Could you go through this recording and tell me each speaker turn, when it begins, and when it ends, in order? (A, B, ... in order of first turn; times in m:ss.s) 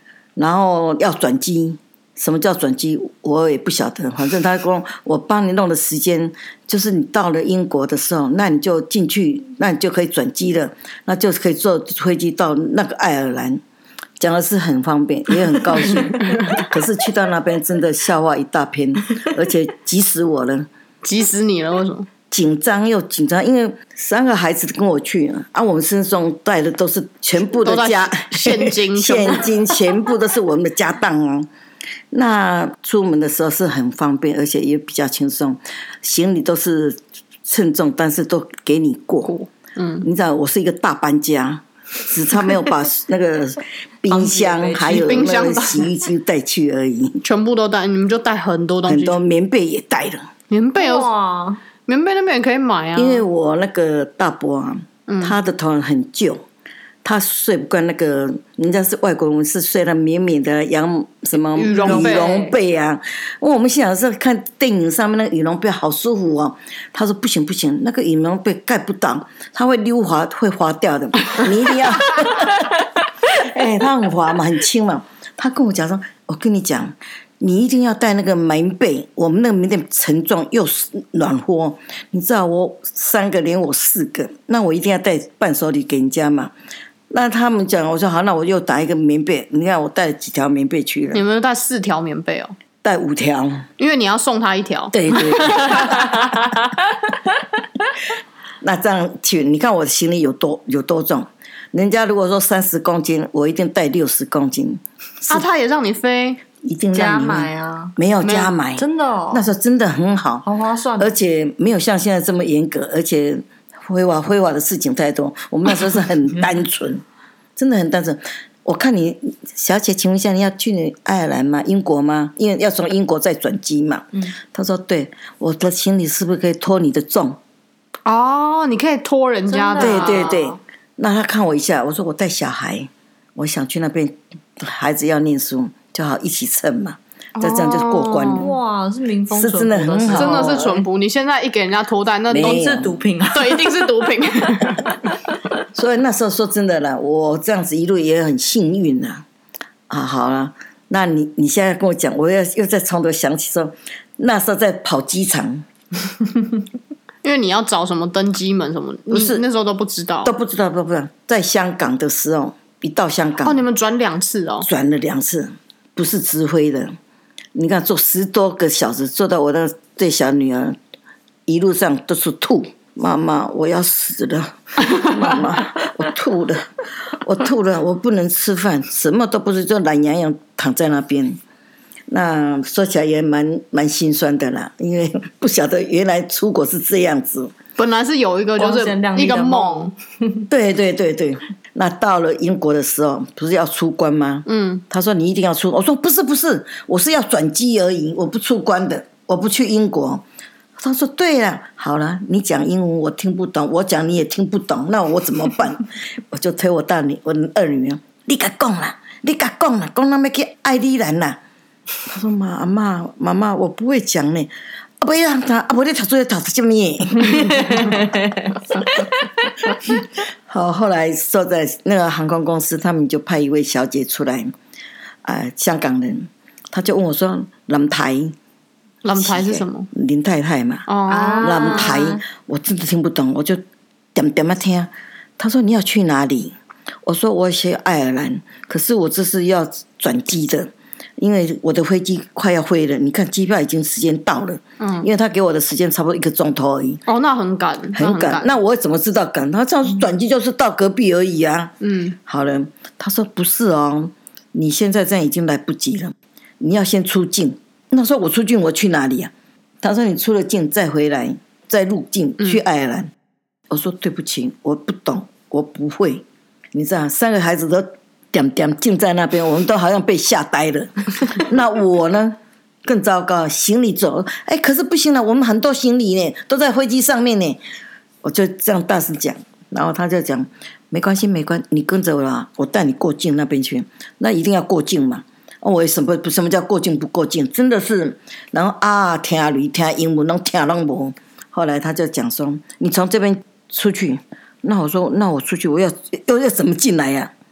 0:00.4-0:13.6 A
0:14.2-0:20.7 A
0:21.0-0:22.1 B
0:22.3-0:31.5 A
0:27.6-0:29.5 B
0:32.1-0:39.3 A
0:39.2-0:40.1 B
0:40.0-0:47.2 A
0:44.1-0:45.7 C
0:44.9-0:45.8 B
0:47.2-0:49.2 B
0:48.8-0:50.3 A
0:50.5-0:51.1 B
0:50.8-0:51.6 C
0:51.8-0:53.2 B
0:53.0-0:56.4 A
0:55.1-0:55.4 B
0:57.0-1:26.6 A
1:01.5-1:02.5 B
1:01.7-1:02.5 C
1:27.1-1:31.2 A
1:31.1-1:32.5 B
1:32.8-1:33.6 A
1:33.8-1:36.1 B
1:34.9-1:36.2 A
1:38.6-1:45.4 A
1:45.3-1:46.4 B
1:46.6-1:50.4 A
1:46.9-1:47.9 C
1:48.2-1:48.5 B
1:48.8-1:49.4 C
1:50.4-1:51.1 C
1:51.0-1:57.0 A
1:57.6-2:07.4 A
2:08.0-2:10.3 B
2:09.5-2:10.6 C
2:09.8-2:18.5 A
2:17.4-2:18.5 B
2:18.3-2:20.6 C
2:19.3-2:20.8 A
2:20.1-2:22.7 B
2:22.3-2:23.0 A
2:22.3-2:24.1 C
2:23.3-2:24.9 B
2:25.7-2:29.2 A
2:29.9-2:35.7 A
2:37.2-2:40.3 B
2:39.1-2:39.4 A
2:40.2-2:43.6 A
2:43.4-2:44.7 B
2:44.6-2:46.9 A
2:47.5-2:50.8 A
2:51.5-3:01.4 A
3:02.1-3:07.5 A
3:07.8-3:09.9 B
3:08.6-3:10.4 C
3:10.5-3:20.2 A
3:14.5-3:14.8 B
3:20.8-3:31.4 A
3:32.0-3:38.0 A
3:37.4-3:38.4 C
3:38.7-3:39.0 A
3:39.8-3:44.5 A
3:45.2-3:48.3 A
3:49.0-3:49.9 B
3:49.1-3:50.9 A
3:50.9-3:52.0 B
3:51.1-3:52.2 C
3:51.4-3:53.6 A
3:54.1-4:07.0 A
4:04.8-4:05.1 B
4:07.1-4:08.5 B
4:07.9-4:23.1 A
4:11.8-4:12.2 B
4:23.7-4:37.6 A
4:38.2-4:57.3 A